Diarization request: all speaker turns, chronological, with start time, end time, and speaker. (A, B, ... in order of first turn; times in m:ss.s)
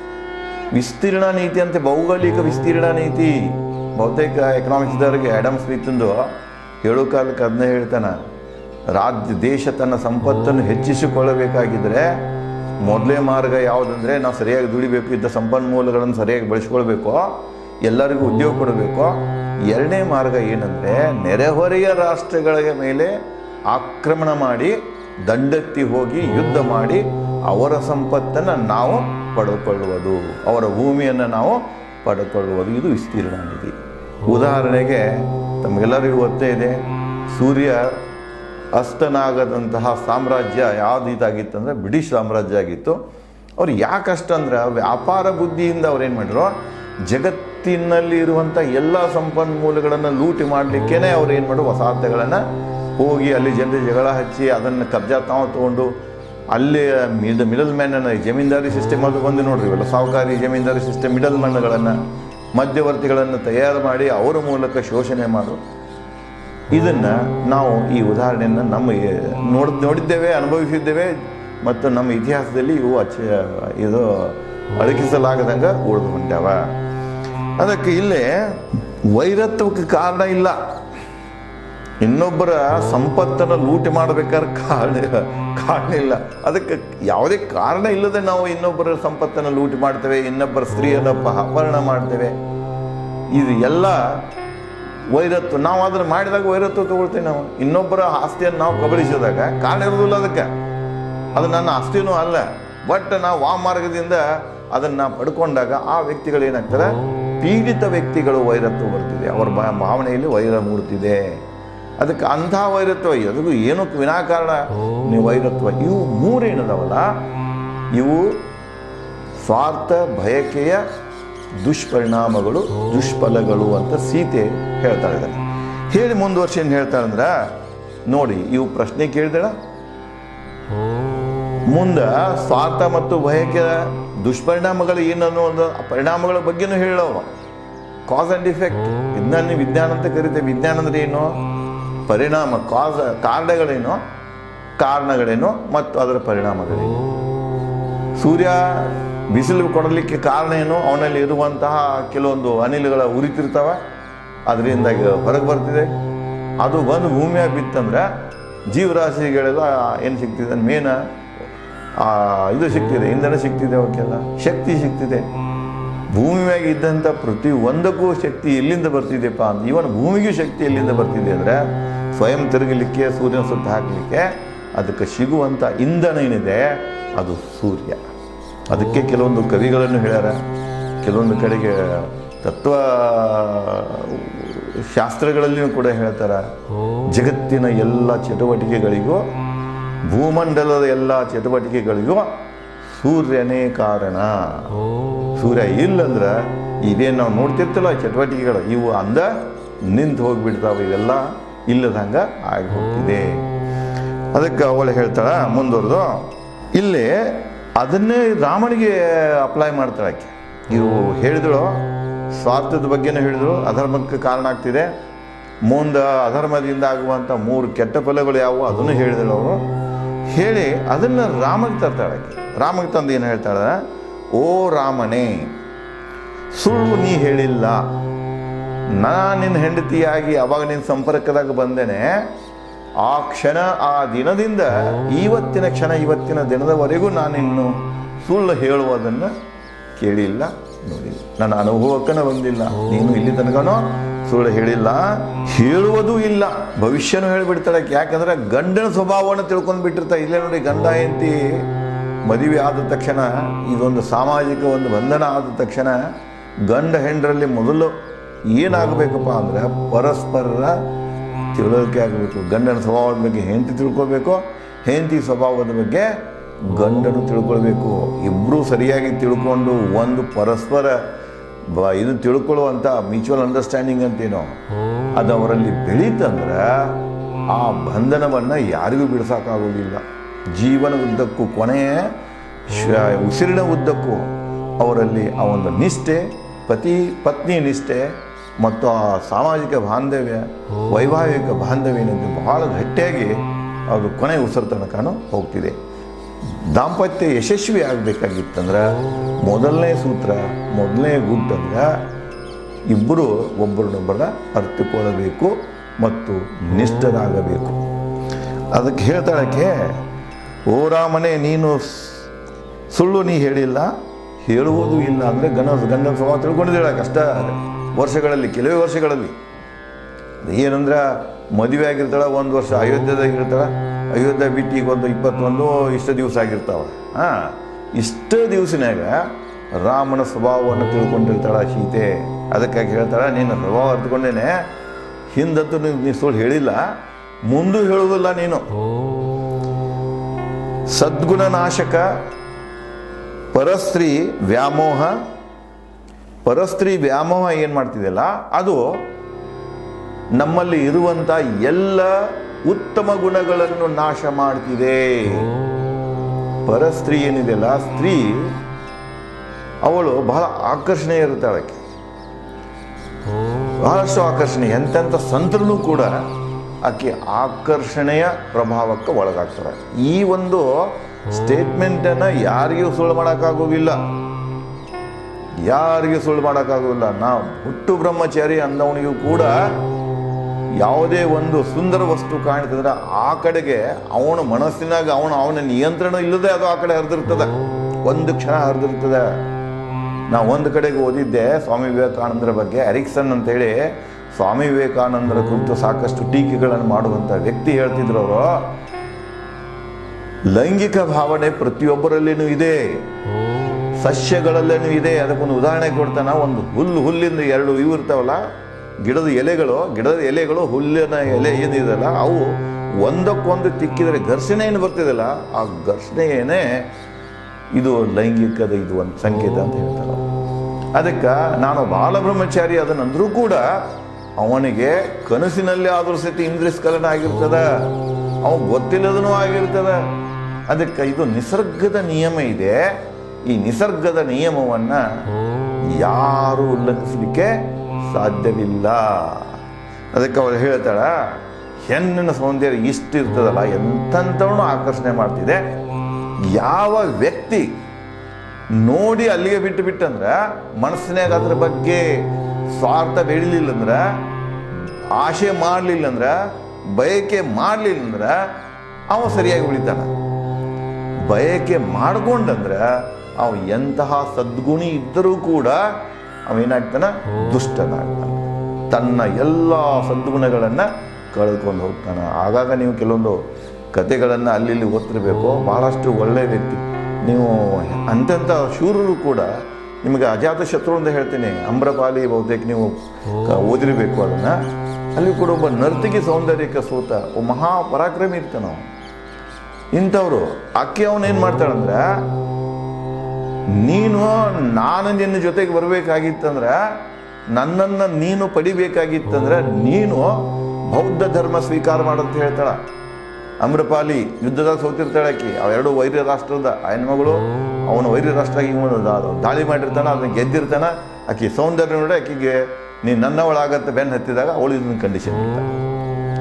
0:00.7-0:08.2 A
0:08.9-0:12.2 A
0:12.8-0:23.1 A
0:23.7-0:24.8 A
0:25.3-0:38.0 A
0:38.7-0:43.0 A
0:43.6-0:46.6 A
0:47.1-0:52.4 A
0:53.0-0:55.9 A
0:56.5-1:02.0 A
1:02.5-1:05.6 A
1:06.7-1:16.6 A
1:17.6-1:20.6 A
1:22.0-1:32.4 A
1:33.3-1:34.3 A
1:35.1-1:40.5 A
1:41.4-1:51.2 A
1:52.0-1:57.1 A
1:57.9-1:58.4 A
1:59.4-2:00.8 A
2:01.6-2:07.5 A
2:08.1-2:09.6 A
2:11.7-2:17.3 A
2:18.1-2:21.4 A
2:22.1-2:24.0 A
2:24.8-2:27.1 A
2:28.2-2:33.8 A
2:34.5-2:36.0 A
2:36.6-2:38.1 A
2:38.7-2:41.0 A
2:42.0-2:45.3 A
2:46.1-2:58.0 A
2:58.7-3:00.4 A
3:01.0-3:06.5 A
3:07.1-3:09.3 A
3:10.1-3:14.8 A
3:15.3-3:23.4 A
3:24.3-3:34.9 A
3:35.7-3:39.6 A
3:40.3-3:43.8 A
3:44.4-3:45.5 A
3:46.5-3:47.9 A
3:49.0-3:52.2 A
3:53.0-3:59.3 A
4:00.0-4:11.7 A
4:12.2-4:16.0 A
4:16.7-4:18.0 A
4:18.5-4:20.8 A
4:21.5-4:31.0 A
4:31.7-4:34.5 A
4:35.1-4:37.0 A
4:37.5-4:40.0 A
4:40.5-4:42.2 A
4:42.7-4:55.8 A
4:56.6-5:01.9 A
5:02.9-5:07.8 A
5:08.7-5:10.0 A
5:10.7-5:12.3 A
5:12.9-5:13.9 A
5:14.4-5:19.4 A
5:20.4-5:34.6 A
5:35.3-5:36.9 A
5:37.5-5:38.7 A
5:40.9-5:42.1 A
5:43.5-5:45.1 A
5:46.4-5:49.0 A
5:50.4-5:55.5 A
5:56.6-5:58.6 A
5:59.8-6:01.8 A
6:03.8-6:06.2 A
6:06.8-6:14.0 A
6:15.6-6:19.8 A
6:20.8-6:29.3 A
6:30.3-6:38.7 A
6:40.5-6:43.0 A
6:44.0-6:48.4 A
6:49.0-6:56.9 A
6:57.8-7:00.3 A
7:01.0-7:10.0 A
7:10.7-7:12.9 A
7:13.5-7:15.0 A
7:15.9-7:19.6 A
7:20.1-7:25.6 A
7:26.5-7:27.8 A
7:28.8-7:32.1 A
7:32.8-7:34.0 A
7:35.2-7:36.4 A
7:37.0-7:38.4 A
7:39.1-7:40.1 A
7:41.3-7:53.4 A
7:53.9-7:59.5 A
8:00.0-8:04.6 A
8:05.2-8:08.8 A
8:09.9-8:12.1 A
8:13.8-8:16.9 A
8:17.5-8:22.8 A
8:23.6-8:35.7 A